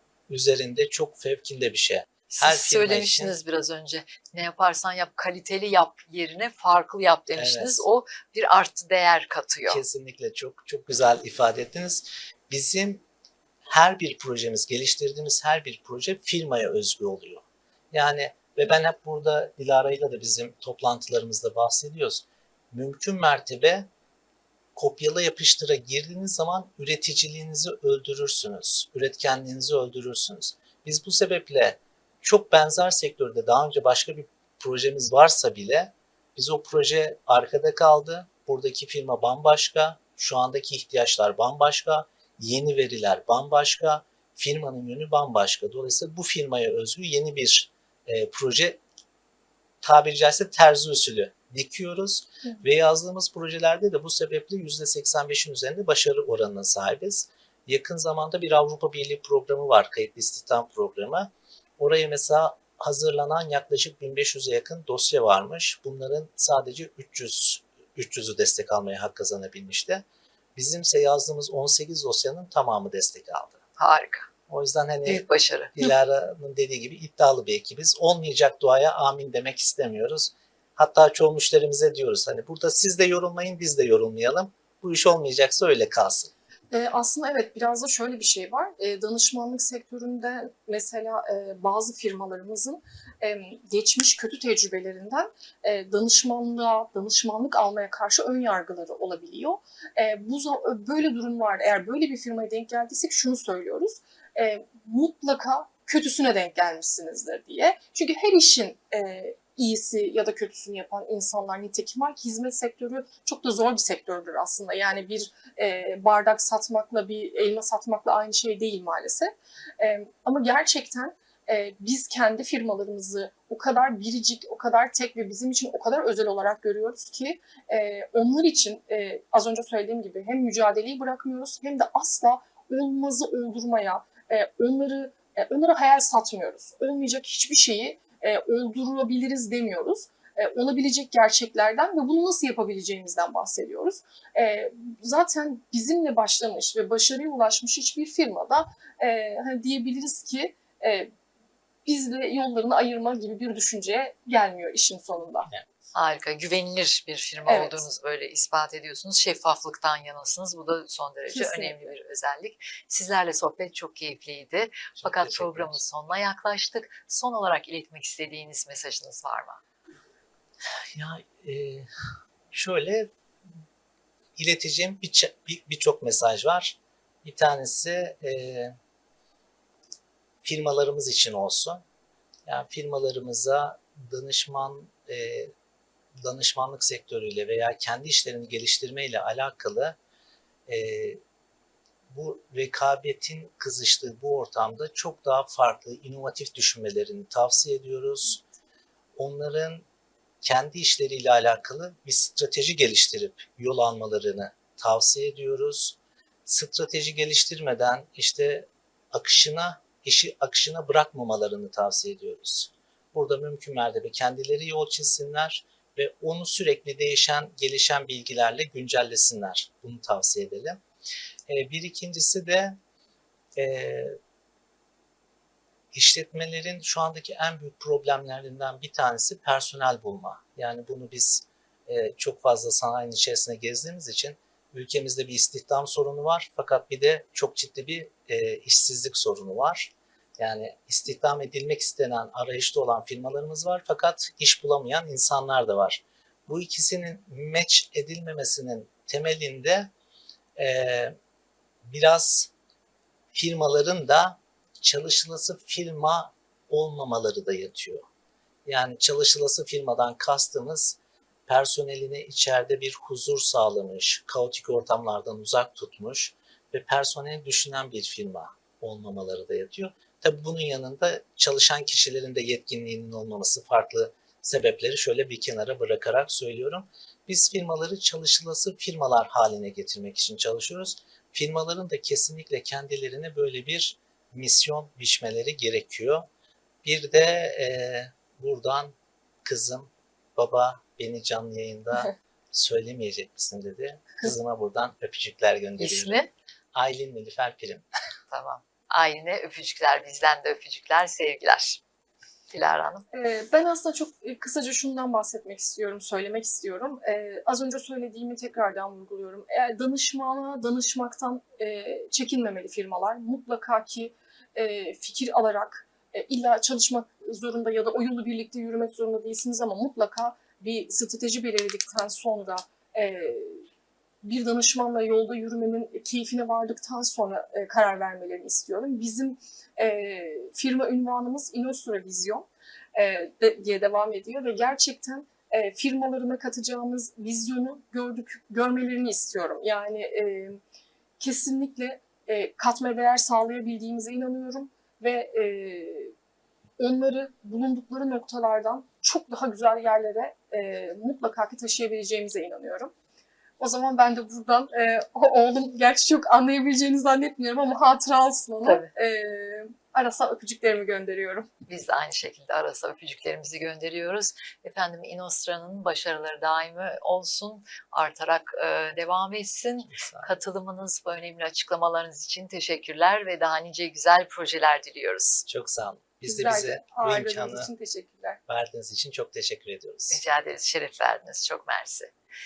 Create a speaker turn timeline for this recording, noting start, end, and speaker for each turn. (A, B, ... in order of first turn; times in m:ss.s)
0:00.3-0:03.4 A
0:02.3-0:09.8 B
0:07.4-0:07.8 A
0:09.7-0:13.0 A
0:13.7-0:23.9 A
0:24.8-0:48.8 A
0:49.8-1:10.0 A
1:10.6-1:13.6 A
1:13.8-1:14.3 B
1:14.5-1:26.3 A
1:15.1-1:15.8 B
1:26.7-2:31.1 C
2:31.8-2:35.5 C
2:35.9-2:49.6 B
2:37.5-2:37.9 C
2:41.3-2:41.8 C
2:45.0-2:45.8 A
2:50.9-2:51.9 A
2:52.5-2:53.1 A
2:54.4-2:58.8 A
3:00.4-3:01.8 A
3:02.5-3:05.5 A
3:06.2-3:10.0 A
3:10.7-3:11.2 A
3:12.1-3:18.4 A
3:19.2-3:19.9 A
3:20.4-3:40.8 A
3:41.5-3:42.8 A
3:43.6-3:44.2 A
3:45.9-4:09.9 A
4:10.6-4:11.2 A
4:11.8-4:12.5 A
4:13.3-4:18.1 A
4:18.7-4:46.3 A
4:46.8-4:56.2 A
4:55.8-4:56.3 B
4:56.7-4:57.9 A
4:58.3-5:01.8 B
5:02.5-5:03.0 B
5:03.1-5:23.6 C
5:24.2-5:40.6 C
5:41.2-5:46.1 C
5:46.8-5:52.9 C
5:53.6-6:01.5 C
5:58.6-5:58.9 B
6:01.7-6:15.4 B
6:09.9-6:10.3 A
6:15.5-6:17.7 A
6:16.3-6:18.4 C
6:18.5-6:20.2 A
6:20.1-6:22.1 B